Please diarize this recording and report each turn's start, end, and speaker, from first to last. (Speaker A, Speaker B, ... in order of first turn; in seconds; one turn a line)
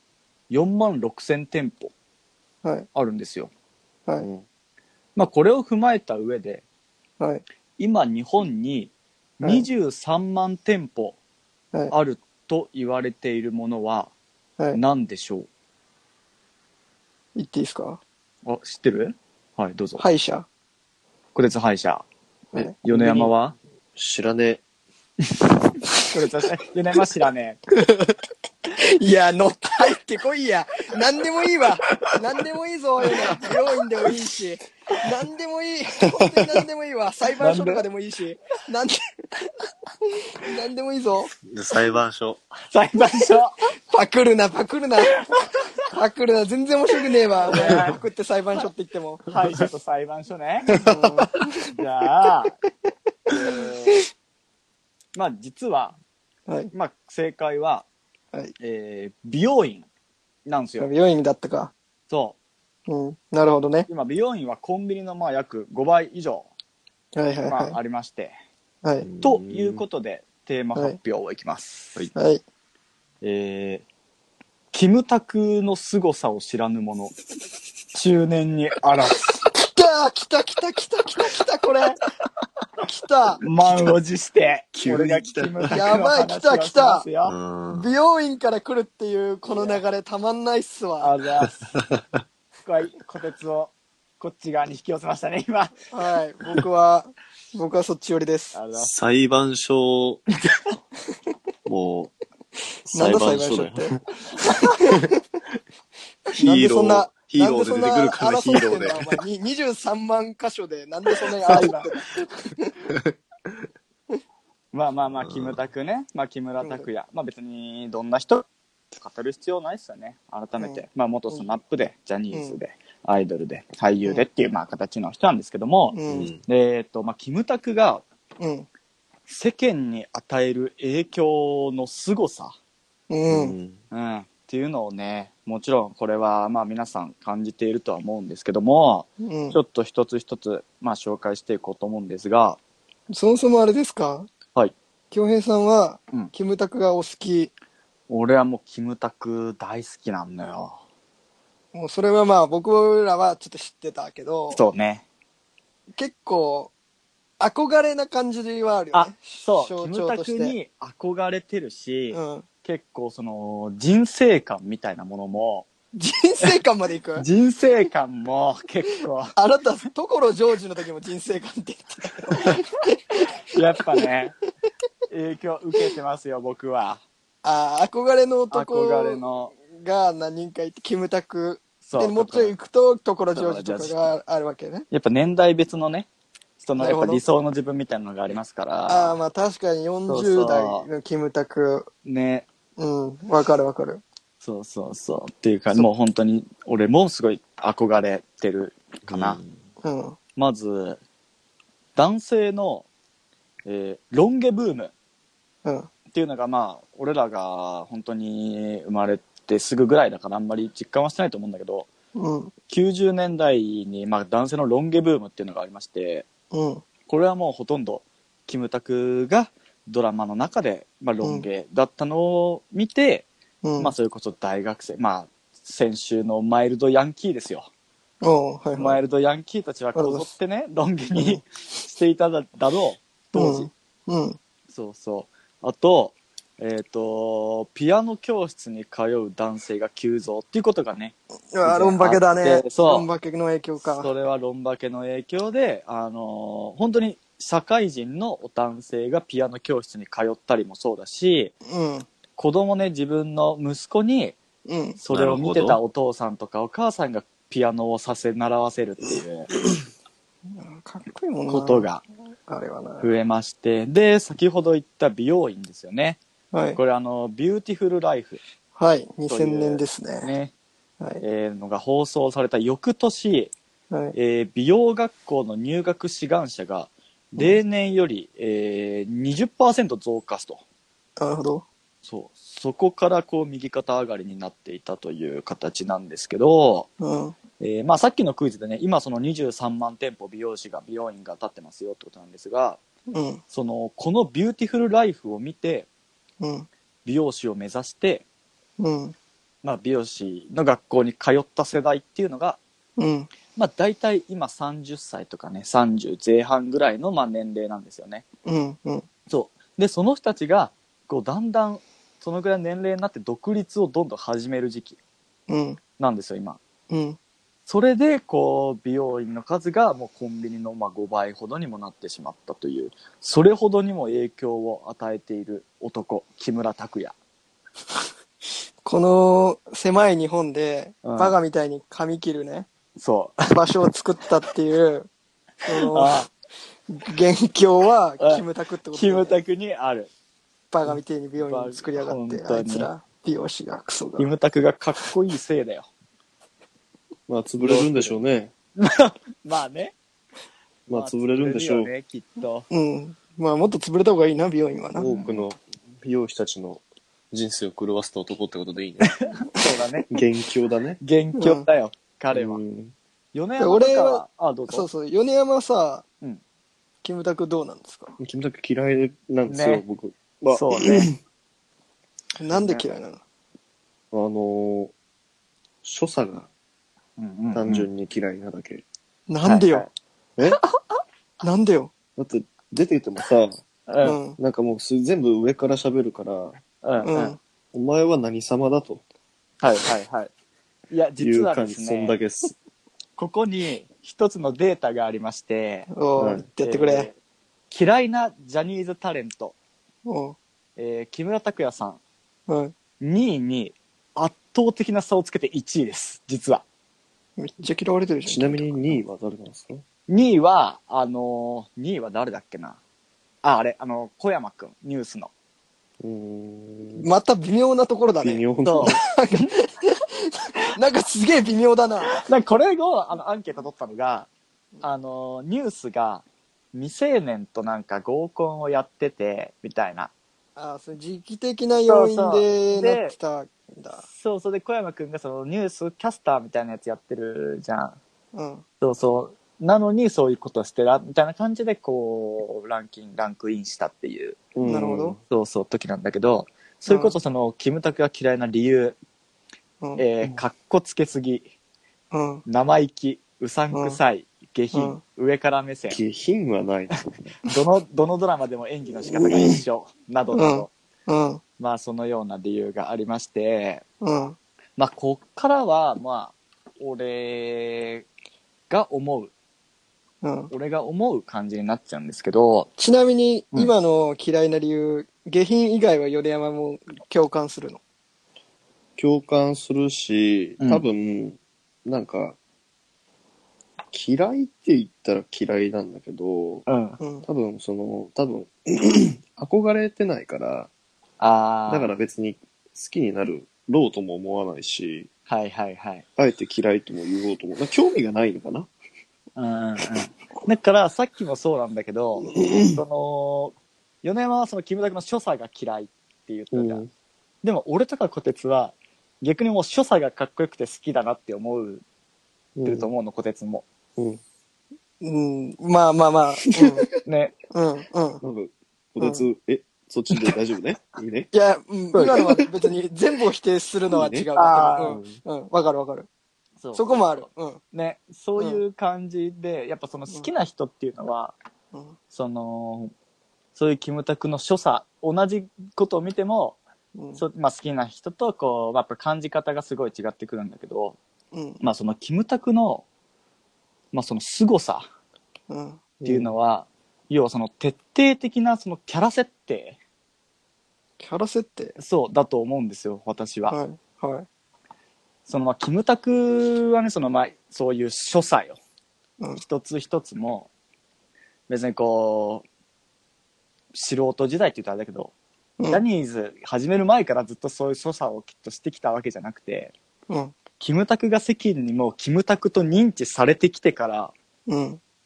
Speaker A: 0.5-1.9
Speaker A: 2.9-3.5
Speaker B: 4.2-4.4
Speaker A: 5.2-6.6
Speaker C: 7.2-7.4
Speaker A: 7.8-11.2
Speaker C: 9.4-9.7
Speaker A: 11.9-14.1
Speaker A: 14.7-15.5
Speaker C: 17.4-18.0
Speaker A: 18.4-20.0
Speaker C: 20.0-20.5
Speaker A: 21.3-22.0
Speaker C: 22.5-23.3
Speaker A: 22.6-23.5
Speaker B: 23.9-24.6
Speaker A: 26.0-27.6
Speaker C: 28.7-39.0
Speaker A: 37.4-37.8
Speaker C: 40.2-41.3
Speaker B: 41.5-42.4
Speaker A: 42.7-43.5
Speaker C: 43.9-45.2
Speaker C: 45.9-49.2
Speaker A: 47.5-48.0
Speaker A: 49.3-50.7
Speaker B: 50.7-51.0
Speaker C: 50.8-51.5
Speaker A: 51.7-52.5
Speaker A: 53.3-54.0
Speaker A: 55.1-56.0
Speaker C: 56.5-56.7
Speaker A: 56.7-57.9
Speaker A: 58.6-59.9
Speaker A: 60.5-60.9
Speaker C: 60.8-61.7
Speaker A: 62.1-62.4
Speaker C: 62.9-63.9
Speaker A: 63.9-66.5
Speaker C: 67.1-67.8
Speaker A: 67.5-68.3
Speaker B: 69.0-69.8
Speaker A: 69.2-72.1
Speaker C: 72.1-72.4
Speaker A: 73.2-73.8
Speaker A: 74.7-77.1
Speaker A: 77.9-79.3
Speaker C: 79.5-82.0
Speaker C: 82.8-83.4
Speaker A: 83.4-87.3
Speaker B: 84.8-85.8
Speaker C: 85.7-87.0
Speaker B: 87.2-87.9
Speaker C: 87.7-91.1
Speaker A: 89.5-89.8
Speaker A: 91.0-91.7
Speaker A: 92.6-95.8
Speaker C: 95.9-98.6
Speaker A: 98.5-98.9
Speaker B: 98.8-100.3
Speaker B: 101.7-102.1
Speaker B: 102.9-104.0
Speaker C: 102.9-103.9
Speaker C: 104.5-105.2
Speaker B: 104.7-105.1
Speaker C: 106.3-112.8
Speaker B: 106.3-109.2
Speaker A: 111.4-111.9
Speaker A: 114.7-128.0
Speaker B: 115.2-115.6
Speaker C: 116.6-116.9
Speaker C: 120.6-121.4
Speaker C: 122.3-122.6
Speaker C: 125.9-126.3
Speaker B: 126.1-126.4
Speaker C: 128.4-128.7
Speaker A: 129.3-132.5
Speaker C: 133.1-133.5
Speaker B: 133.3-133.8
Speaker A: 133.9-142.6
Speaker C: 139.2-139.6
Speaker C: 143.1-144.3
Speaker C: 145.1-147.5
Speaker A: 148.1-150.8
Speaker C: 151.7-154.6
Speaker A: 154.5-155.0
Speaker C: 155.9-156.7
Speaker C: 157.4-160.6
Speaker A: 158.9-165.7
Speaker C: 162.1-162.4
Speaker C: 165.9-167.3
Speaker A: 167.2-169.3
Speaker C: 169.3-173.2
Speaker A: 173.5-174.4
Speaker A: 175.1-177.0
Speaker C: 177.4-184.8
Speaker A: 178.5-179.5
Speaker A: 181.8-182.5
Speaker A: 183.3-184.1
Speaker A: 184.9-186.1
Speaker A: 186.6-189.2
Speaker C: 186.8-187.2
Speaker C: 188.9-191.9
Speaker A: 190.1-190.9
Speaker A: 192.0-192.5
Speaker C: 192.8-194.0
Speaker A: 194.4-199.4
Speaker B: 199.1-199.6
Speaker C: 199.8-200.2
Speaker A: 200.4-201.0
Speaker A: 201.9-202.9
Speaker A: 203.7-204.9
Speaker A: 206.1-211.9
Speaker C: 212.1-212.5
Speaker A: 212.7-216.2
Speaker C: 216.5-216.8
Speaker A: 217.1-223.3
Speaker C: 223.6-223.9
Speaker A: 223.8-227.7
Speaker C: 228.2-229.0
Speaker A: 228.7-233.7
Speaker C: 229.9-230.3
Speaker C: 231.2-231.4
Speaker C: 233.3-234.4
Speaker A: 234.7-243.1
Speaker C: 241.5-244.1
Speaker A: 243.8-251.5
Speaker C: 251.6-252.1
Speaker A: 252.4-254.4
Speaker C: 254.6-255.0
Speaker A: 255.0-259.5
Speaker B: 255.1-255.8
Speaker C: 260.5-261.9
Speaker A: 261.5-262.0
Speaker C: 262.5-263.1
Speaker A: 263.0-266.2
Speaker C: 266.5-266.8
Speaker A: 266.7-268.4
Speaker C: 268.8-270.3
Speaker A: 269.3-270.5
Speaker A: 271.2-273.5
Speaker A: 274.1-280.6
Speaker C: 281.2-281.6
Speaker A: 282.0-286.9
Speaker C: 287.0-287.4
Speaker A: 287.6-292.8
Speaker C: 293.1-293.4
Speaker A: 293.5-295.9
Speaker C: 296.4-296.7
Speaker A: 297.0-298.2
Speaker C: 298.8-299.1
Speaker A: 299.6-302.6
Speaker C: 303.0-303.3
Speaker A: 303.5-308.2
Speaker C: 308.4-309.1
Speaker A: 309.3-315.0
Speaker C: 315.5-315.8
Speaker A: 316.0-316.6
Speaker C: 316.9-317.2
Speaker A: 317.7-327.1
Speaker C: 328.8-332.7
Speaker A: 331.0-331.4
Speaker A: 333.0-333.8
Speaker C: 333.5-335.1
Speaker C: 335.6-336.3
Speaker A: 335.7-336.3
Speaker C: 336.9-339.4
Speaker A: 338.2-340.1
Speaker C: 340.7-344.3
Speaker A: 341.4-342.9
Speaker A: 344.2-345.9
Speaker B: 347.3-348.5
Speaker A: 347.6-348.2
Speaker A: 348.8-349.9
Speaker B: 350.9-351.9
Speaker A: 350.9-352.7
Speaker C: 352.7-355.1
Speaker B: 355.0-359.5
Speaker A: 355.0-355.4
Speaker A: 359.2-360.1
Speaker B: 360.1-361.0
Speaker A: 361.0-362.6
Speaker C: 361.4-361.6
Speaker B: 362.3-362.9
Speaker A: 363.3-364.9
Speaker C: 363.6-366.0
Speaker C: 367.0-368.1
Speaker B: 368.2-371.1
Speaker A: 369.5-369.8
Speaker A: 370.5-371.1
Speaker C: 372.4-373.2
Speaker A: 372.5-372.8
Speaker B: 374.1-374.9
Speaker B: 375.8-376.5
Speaker A: 377.2-377.9
Speaker B: 377.5-378.8
Speaker C: 379.3-379.9
Speaker A: 379.4-379.9
Speaker C: 381.4-381.9
Speaker B: 382.1-383.6
Speaker A: 383.9-384.2
Speaker C: 384.0-384.4
Speaker B: 384.4-386.6
Speaker A: 386.8-387.4
Speaker C: 387.0-387.4
Speaker B: 387.7-389.0
Speaker A: 389.6-390.3
Speaker A: 390.9-392.2
Speaker B: 391.2-392.6
Speaker A: 393.2-395.9
Speaker C: 395.9-397.1
Speaker B: 396.2-396.5
Speaker A: 396.6-397.1
Speaker A: 397.7-399.5
Speaker C: 400.0-400.4
Speaker A: 400.8-402.0
Speaker C: 402.5-402.7
Speaker A: 403.0-406.6
Speaker C: 407.4-409.0
Speaker B: 408.2-409.8
Speaker A: 410.1-412.8
Speaker A: 413.4-415.3
Speaker B: 416.0-417.1
Speaker C: 417.0-422.2
Speaker B: 418.2-419.0
Speaker A: 418.6-419.5
Speaker A: 422.1-424.3
Speaker A: 424.8-430.1
Speaker C: 430.6-434.0
Speaker A: 431.8-433.1
Speaker A: 434.1-438.0
Speaker C: 438.3-438.6
Speaker A: 438.8-444.4
Speaker B: 444.6-445.2
Speaker C: 444.6-445.2
Speaker A: 445.3-449.0
Speaker C: 446.9-447.1
Speaker A: 450.0-451.5
Speaker C: 452.1-452.4
Speaker A: 452.4-456.0
Speaker C: 453.7-454.0
Speaker C: 454.7-455.0
Speaker B: 455.9-457.1
Speaker A: 457.4-460.7
Speaker C: 460.3-461.4
Speaker A: 461.6-463.8
Speaker C: 464.0-464.4
Speaker A: 464.8-468.1
Speaker A: 468.7-469.3
Speaker C: 470.2-470.5
Speaker A: 470.5-472.7
Speaker C: 472.8-477.8
Speaker B: 479.0-482.4
Speaker B: 483.9-486.6
Speaker A: 486.7-487.0
Speaker C: 487.0-487.2
Speaker B: 487.2-490.7
Speaker A: 491.2-491.9
Speaker B: 491.7-495.1
Speaker A: 495.3-496.0
Speaker B: 496.2-498.7
Speaker A: 499.4-506.8
Speaker B: 502.4-502.7
Speaker B: 506.5-506.9
Speaker A: 507.4-511.8
Speaker B: 512.5-512.9
Speaker A: 512.6-513.6
Speaker C: 515.0-516.9
Speaker A: 517.0-517.3
Speaker C: 517.5-518.2
Speaker B: 518.2-521.3
Speaker C: 521.3-526.1
Speaker A: 521.9-522.2
Speaker B: 523.9-524.3
Speaker A: 524.4-525.0
Speaker B: 524.8-525.2
Speaker A: 526.6-531.3
Speaker C: 526.7-527.6
Speaker A: 532.1-532.9
Speaker A: 533.5-536.6
Speaker C: 536.9-537.2
Speaker A: 537.1-541.0
Speaker C: 541.3-541.6
Speaker A: 541.6-542.8
Speaker A: 543.9-544.9
Speaker C: 545.5-546.0
Speaker B: 546.0-546.3
Speaker A: 546.0-549.8
Speaker C: 551.0-551.8
Speaker A: 551.8-553.6
Speaker C: 553.5-554.3
Speaker A: 555.3-558.6
Speaker A: 559.4-560.5
Speaker A: 561.5-562.4
Speaker A: 563.7-565.1
Speaker A: 565.6-569.7
Speaker C: 570.1-570.4
Speaker A: 570.6-574.1
Speaker C: 574.5-574.8